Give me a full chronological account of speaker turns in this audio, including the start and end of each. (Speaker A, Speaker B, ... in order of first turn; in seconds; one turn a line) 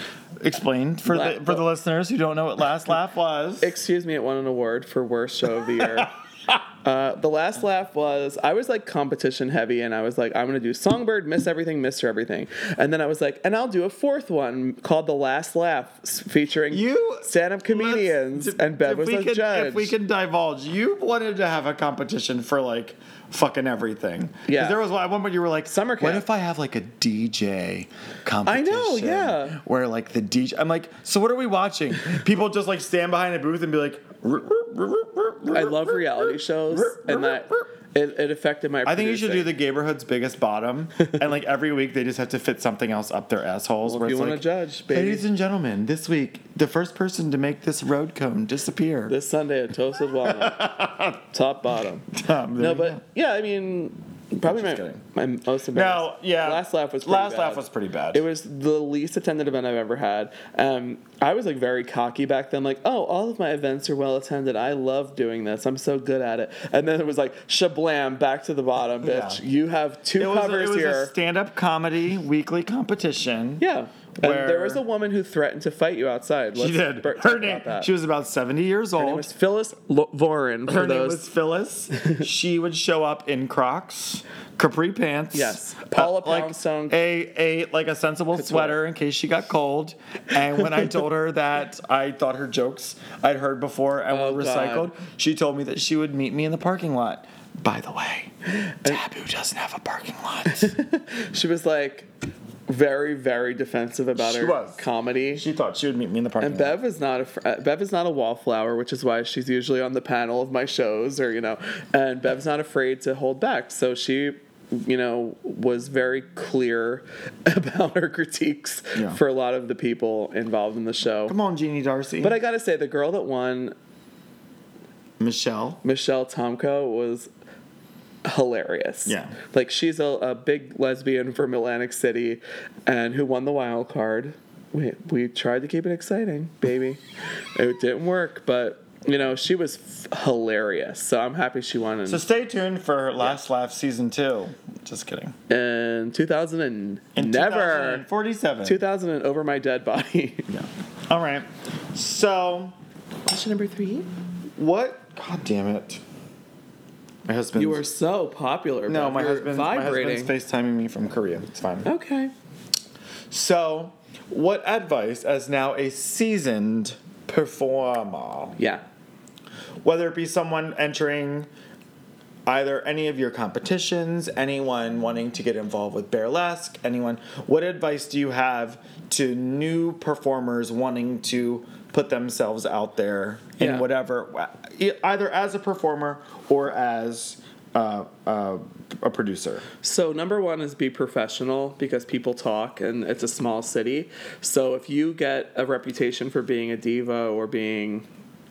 Speaker A: 0.4-3.7
Speaker B: 1.1-1.6
Speaker B: 3.6-6.1
Speaker A: 5.8-6.5
Speaker B: 6.8-19.9
Speaker A: 16.7-37.6
Speaker B: 24.4-24.8
Speaker B: 25.7-26.2
Speaker B: 28.4-29.6
Speaker B: 35.5-39.5
Speaker A: 38.8-49.1
Speaker B: 43.8-45.2
Speaker B: 49.1-71.1
Speaker A: 50.2-51.1
Speaker A: 52.1-53.0
Speaker A: 54.4-55.0
Speaker A: 55.7-58.2
Speaker A: 69.0-69.4
Speaker A: 70.2-73.6
Speaker B: 73.6-77.9
Speaker A: 74.2-74.8
Speaker A: 76.5-79.3
Speaker B: 79.0-81.2
Speaker A: 80.7-100.7
Speaker B: 85.3-87.0
Speaker B: 88.3-88.8
Speaker B: 94.1-94.9
Speaker B: 98.5-99.0
Speaker B: 100.5-102.1
Speaker B: 102.7-105.4
Speaker A: 104.2-106.8
Speaker B: 106.4-121.3
Speaker A: 121.3-122.4
Speaker B: 122.2-123.7
Speaker A: 125.2-125.8
Speaker B: 125.8-127.3
Speaker B: 128.2-137.0
Speaker A: 129.1-129.3
Speaker B: 137.5-142.2
Speaker A: 142.1-145.3
Speaker B: 145.5-148.0
Speaker A: 147.1-148.8
Speaker B: 148.6-150.5
Speaker A: 150.5-152.7
Speaker B: 153.2-154.1
Speaker A: 154.6-156.0
Speaker A: 157.2-157.8
Speaker B: 157.6-160.3
Speaker A: 158.9-161.9
Speaker B: 161.8-162.3
Speaker A: 163.3-168.6
Speaker B: 168.6-168.8
Speaker A: 169.8-171.5
Speaker A: 172.5-189.6
Speaker B: 183.6-183.8
Speaker B: 189.8-198.1